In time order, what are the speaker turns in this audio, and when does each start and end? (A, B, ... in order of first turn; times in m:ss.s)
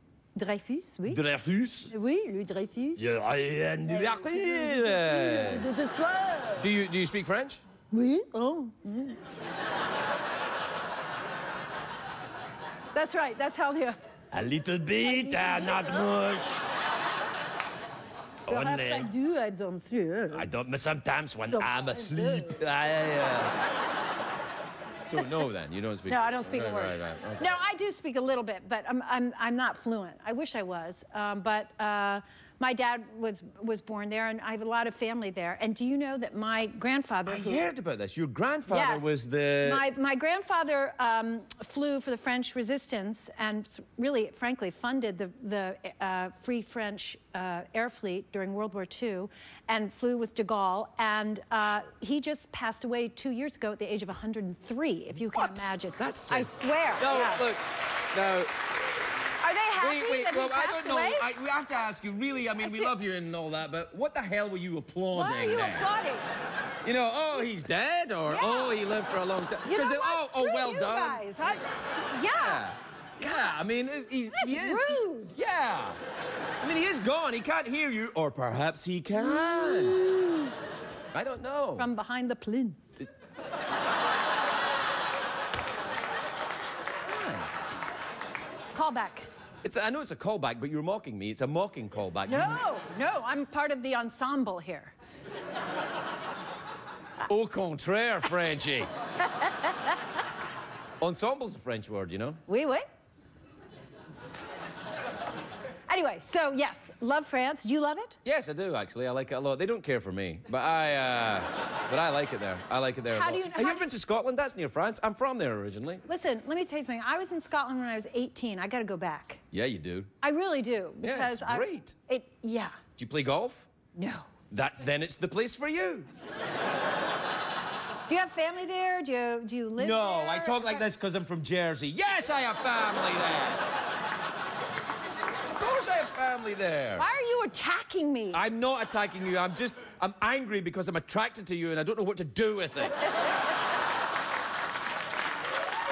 0:00.4-0:01.2 A
0:01.0-0:01.9 B
0:01.9-0:03.1 A
0:03.0-0:05.7 B
0:03.8-0:06.7 A
0:06.6-0:07.6 B
0:07.9-0:09.2 A
0:12.9-0:14.0 A
0:14.3-0:16.7 B
0:15.0-0:16.0 A
0:18.4-0:19.1 B
0:18.5-0:20.5 A
0:20.3-0:23.6 B
0:21.5-0:22.6 A
0:25.0-0:27.6 B
0:26.1-0:37.6 A
0:37.2-0:39.8 B
0:38.7-0:39.1 A
0:39.6-0:57.4 A
0:55.3-0:58.5 B
0:59.4-1:01.2 A
0:59.8-1:05.9 B
1:02.6-1:02.9 A
1:05.1-1:06.3 A
1:06.8-1:11.3 B
1:08.3-1:08.8 A
1:09.6-1:12.6 A
1:12.3-1:16.0 B
1:13.2-1:13.6 A
1:14.3-1:15.3 A
1:16.6-1:20.0 B
1:19.2-1:20.5 A
1:21.1-1:21.9 B
1:21.8-1:22.8 A
1:27.0-1:27.5 B
1:28.7-1:29.3 A
1:29.6-1:32.6 B
1:32.3-1:34.9 A
1:37.2-1:38.9 B
1:39.2-1:40.0 A
1:41.0-1:42.4 B
1:42.5-1:42.8 A
1:45.9-1:48.2 A
1:48.2-1:56.0 B
1:53.1-1:53.9 A
1:56.0-1:59.4 A
1:59.5-2:00.1 B
2:00.2-2:02.8 A
2:01.0-2:02.0 B
2:03.0-2:03.7 B
2:04.0-2:04.3 A
2:04.5-2:06.1 B
2:08.1-2:10.8 A
2:09.8-2:13.6 B
2:15.6-2:17.0 B
2:17.0-2:18.4 A
2:18.3-2:23.0 B